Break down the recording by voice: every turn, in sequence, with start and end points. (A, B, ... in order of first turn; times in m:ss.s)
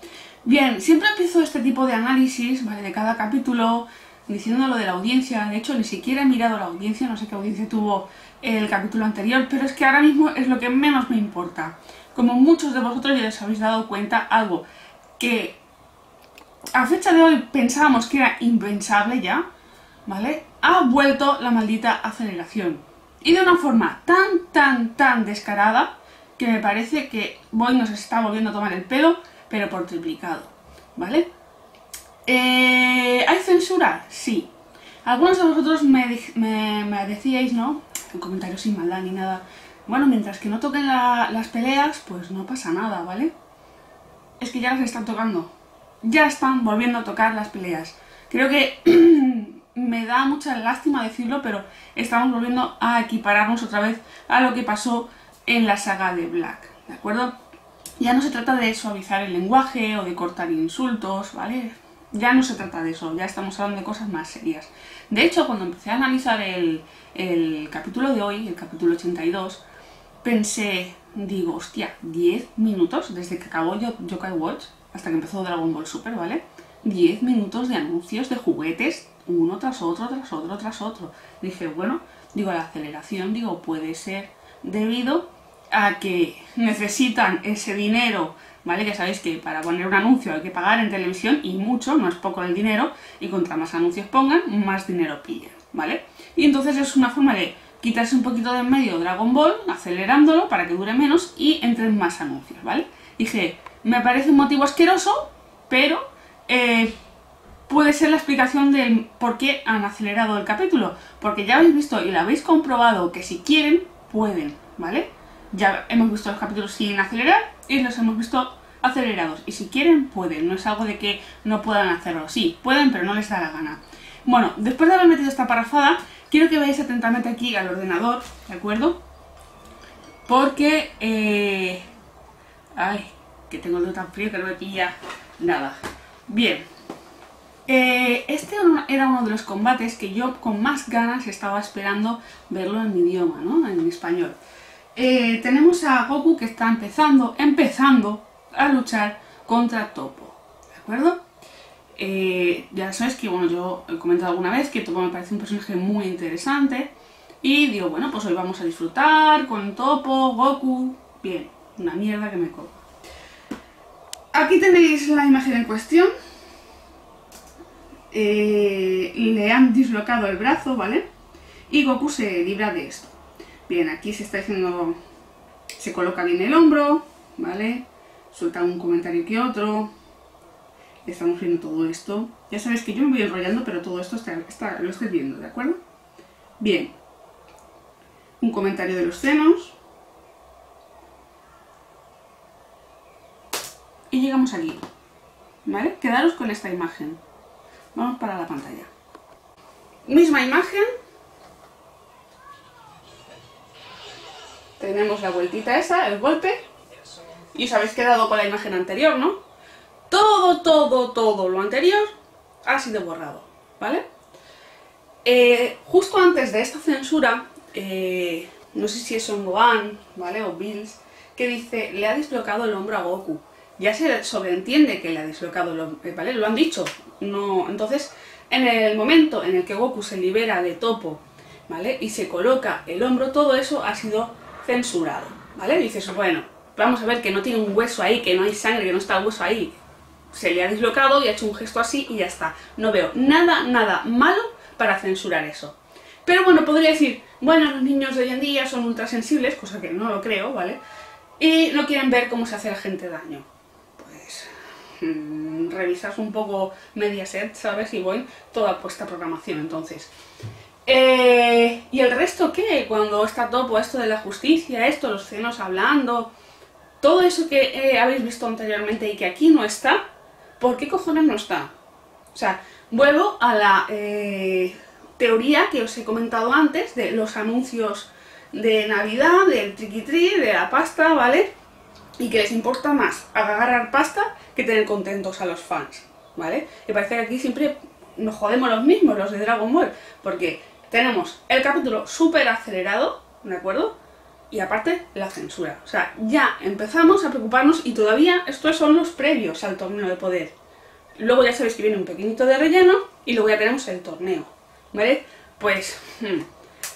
0:00.4-0:14.6 A
0:15.2-0:15.6 A
0:16.7-0:19.4 A
0:20.0-0:31.3 A
0:32.2-0:34.5 A
0:35.0-0:43.3 A
0:44.4-0:57.3 A
0:58.0-1:09.6 A
1:10.2-1:46.9 A
1:47.7-2:09.0 A
2:10.2-2:11.8 A
2:12.7-2:16.6 A
2:17.7-2:24.4 A
2:24.9-2:31.2 A
2:31.9-2:42.8 A
2:44.3-2:46.1 A
2:48.1-2:51.0 A
2:51.7-2:53.1 A
2:53.7-2:55.0 A
2:55.8-2:59.9 A
3:01.0-3:05.8 A
3:06.6-3:06.9 A
3:08.4-3:09.8 A
3:14.1-3:14.8 A
3:15.6-3:17.2 A
3:17.9-3:18.9 A
3:20.0-3:20.9 A
3:24.8-3:26.6 A
3:27.5-3:29.4 A
3:30.1-3:34.0 A
3:35.2-3:59.8 A
4:00.3-4:10.8 A
4:11.4-4:20.1 A
4:20.8-4:26.3 A
4:27.0-4:30.0 A
4:30.6-4:31.7 A
4:32.3-4:41.5 A
4:42.2-4:53.9 A
4:54.5-5:00.5 A
5:01.2-5:06.5 A